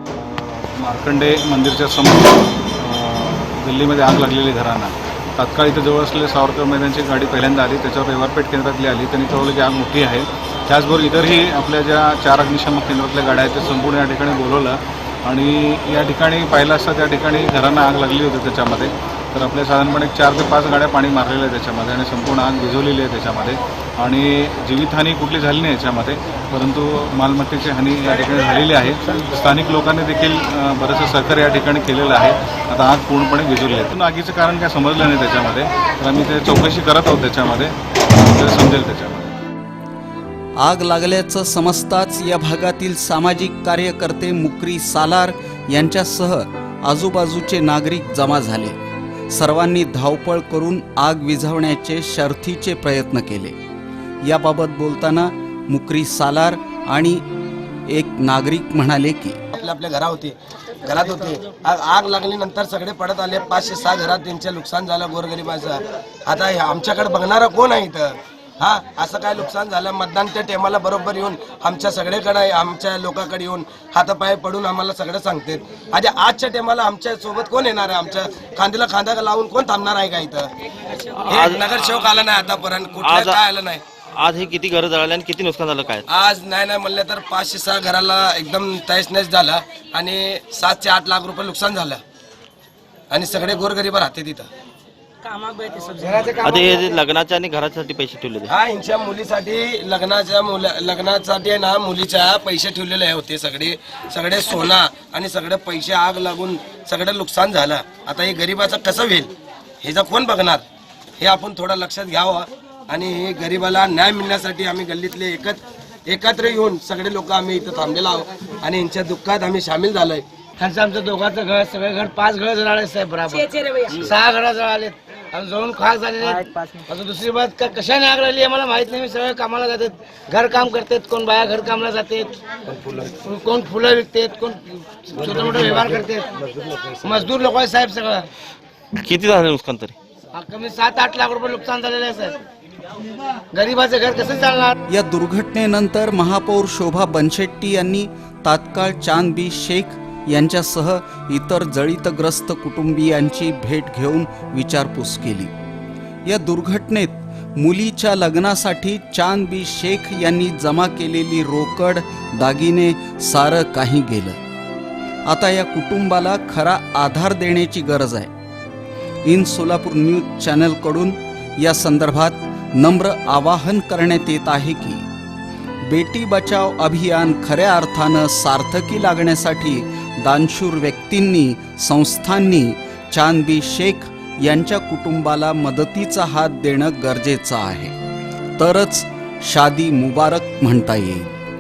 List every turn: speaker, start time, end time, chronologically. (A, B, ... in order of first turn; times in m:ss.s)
0:00.1-0:39.3 A
0:40.6-0:48.8 B
0:49.3-0:53.6 B
0:54.2-0:57.2 B
0:57.9-0:59.4 B
0:59.5-1:20.5 C
1:21.2-1:22.0 D
1:21.3-1:23.8 C
1:23.0-1:23.4 D
1:24.1-1:26.0 D
1:26.1-1:32.0 C
1:33.1-1:34.5 C
1:36.0-1:36.9 E
1:36.4-1:38.5 D
1:38.5-1:50.6 C
1:51.2-2:00.2 C
2:00.6-2:12.4 E
2:12.7-2:13.1 C
2:13.2-2:16.4 E
2:15.2-2:16.0 C
2:16.8-2:17.2 C
2:17.0-2:18.3 E
2:19.0-2:20.0 D
2:20.3-2:22.4 E
2:23.5-2:24.7 E
2:24.9-2:35.5 B
2:36.3-2:44.4 B
2:45.3-2:48.3 B
2:49.3-2:55.0 B
2:55.8-3:08.0 B
3:08.6-3:11.4 B